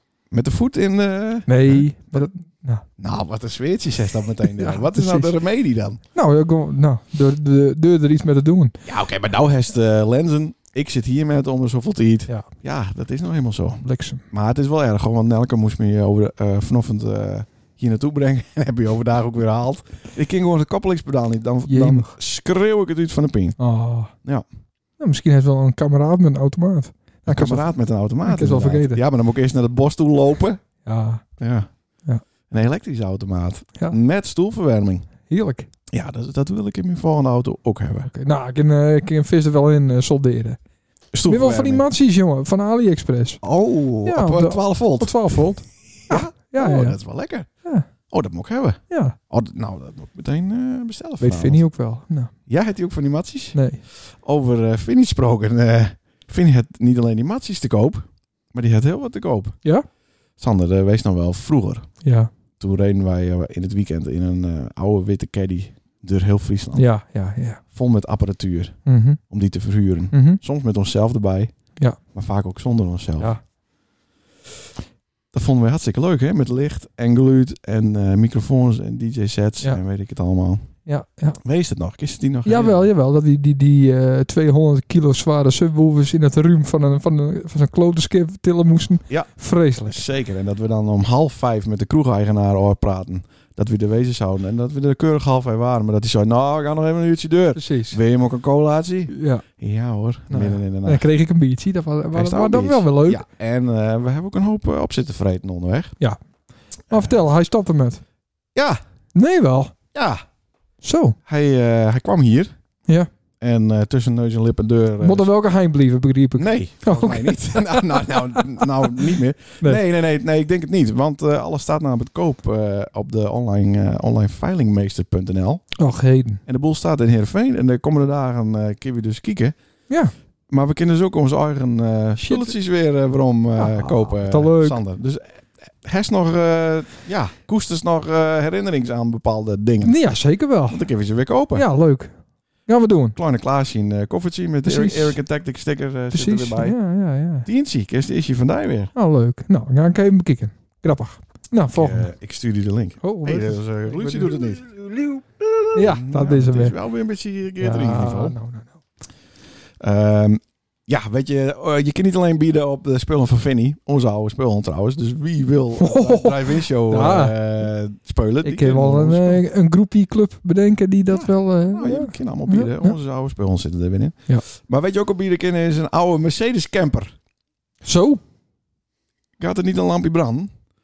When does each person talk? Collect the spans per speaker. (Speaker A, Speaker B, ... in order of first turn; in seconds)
Speaker A: 0.3-2.3, 3.0-6.0, 8.8-23.6, 27.3-30.6, 31.4-31.7, 32.5-35.1, 35.9-38.1, 41.1-41.9, 43.4-45.4, 46.1-47.5, 48.1-51.6, 52.5-59.6, 60.4-61.9, 62.6-66.8, 67.7-68.8, 69.3-71.5, 72.1-73.3, 75.3-80.7, 81.4-82.8, 89.8-101.0, 102.1-106.0, 106.9-107.2, 109.9-110.2, 111.2-112.5, 113.4-115.3, 116.4-125.6, 126.5-129.5, 130.5-140.0, 140.7-141.7, 143.2-146.8, 147.4-148.9, 151.7-158.4, 159.8-169.4, 171.1-177.2, 179.4-180.5
Speaker B: 1.5-2.8, 4.5-5.3, 6.1-8.8, 13.8-14.2, 21.7-22.1, 23.6-24.1, 25.0-27.7, 28.2-29.0, 30.8-31.2, 35.2-35.7, 38.0-40.6, 41.2-43.4, 44.0-47.0, 48.9-49.1, 51.2-52.3, 53.5-53.8, 62.0-62.3, 66.7-67.6, 68.8-69.2, 70.1-70.4, 80.8-81.4, 82.4-90.0, 97.5-98.0, 99.1-99.4, 100.3-103.2, 106.9-108.0, 109.1-109.7, 110.8-111.2, 115.0-118.9, 125.8-126.4, 132.2-132.5, 133.6-134.8, 139.8-140.8, 141.5-142.1, 142.7-143.2, 144.6-145.2, 146.1-147.5, 148.9-152.1, 153.0-154.3, 155.7-156.8, 157.6-158.8, 165.8-167.3, 168.4-172.9, 177.8-178.2